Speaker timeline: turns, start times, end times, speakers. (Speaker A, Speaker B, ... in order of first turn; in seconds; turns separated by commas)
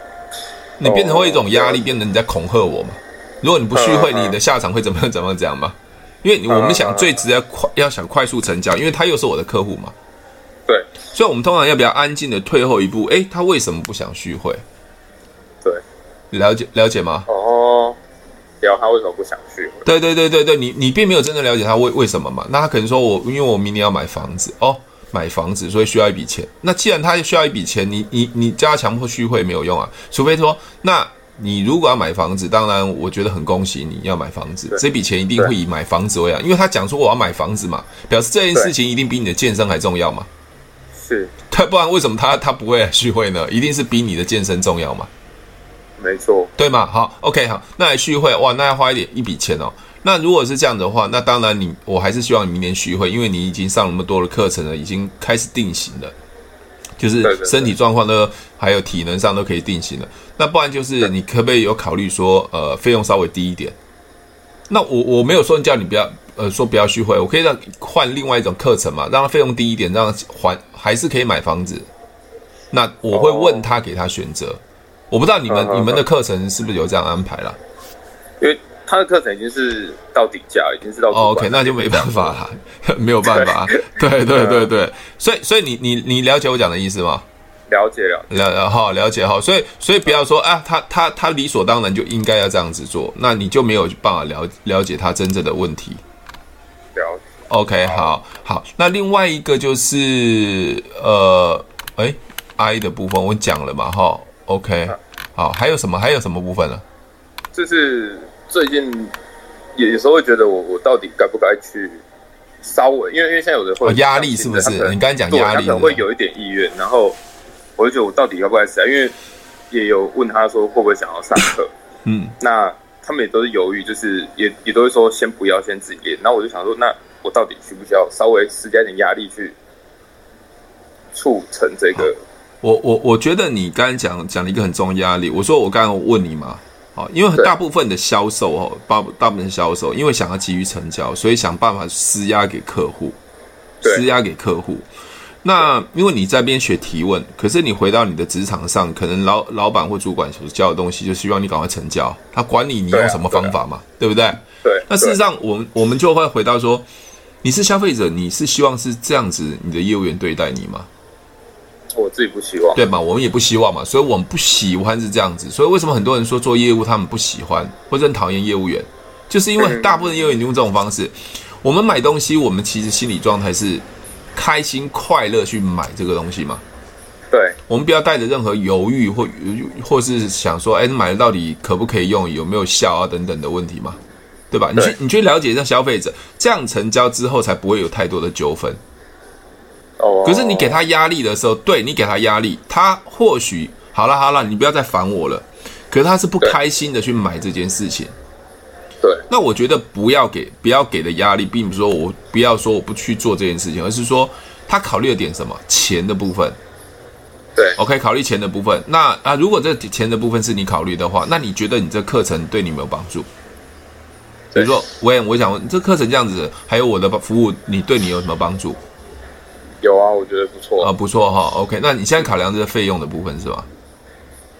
Speaker A: 0.8-9.9, Speaker B: 0.8-1.8, Speaker B: 3.7-4.4, Speaker B: 6.5-7.1, Speaker A: 11.1-14.6, Speaker A: 16.3-17.3, Speaker B: 17.3-18.0, Speaker B: 18.6-19.9, Speaker A: 19.9-40.3, Speaker B: 41.0-41.3, Speaker A: 41.5-45.1, Speaker B: 46.0-46.5, Speaker A: 46.6-56.1, Speaker A: 57.0-63.8, Speaker B: 57.2-57.7, Speaker A: 64.7-71.9, Speaker A: 72.7-77.6, Speaker B: 73.1-73.7, Speaker B: 75.5-76.0, Speaker B: 78.4-82.4, Speaker A: 81.1-87.2, Speaker B: 83.2-84.7, Speaker B: 87.7-88.4, Speaker A: 88.3-96.0, Speaker B: 96.9-98.2, Speaker A: 97.5-106.8, Speaker B: 107.5-109.1, Speaker B: 109.8-112.0, Speaker B: 112.6-117.2, Speaker A: 113.8-116.0, Speaker B: 117.8-119.1, Speaker B: 119.7-121.7, Speaker A: 122.0-122.3, Speaker B: 122.4-129.6, Speaker B: 131.1-132.2, Speaker A: 132.6-143.2, Speaker A: 143.8-144.9, Speaker A: 145.4-156.8, Speaker B: 152.9-153.6, Speaker B: 154.6-155.2, Speaker A: 157.4-160.9, Speaker B: 161.9-162.8, Speaker A: 162.8-173.8, Speaker B: 169.6-170.2, Speaker A: 174.3-176.6, Speaker B: 177.3-177.6, Speaker A: 177.7-184.0, Speaker A: 184.5-188.8, Speaker B: 190.0-190.8, Speaker A: 190.2-198.1, Speaker A: 199.3-206.6, Speaker A: 207.8-213.3, Speaker A: 214.5-218.8, Speaker B: 219.8-220.9, Speaker A: 220.8-223.7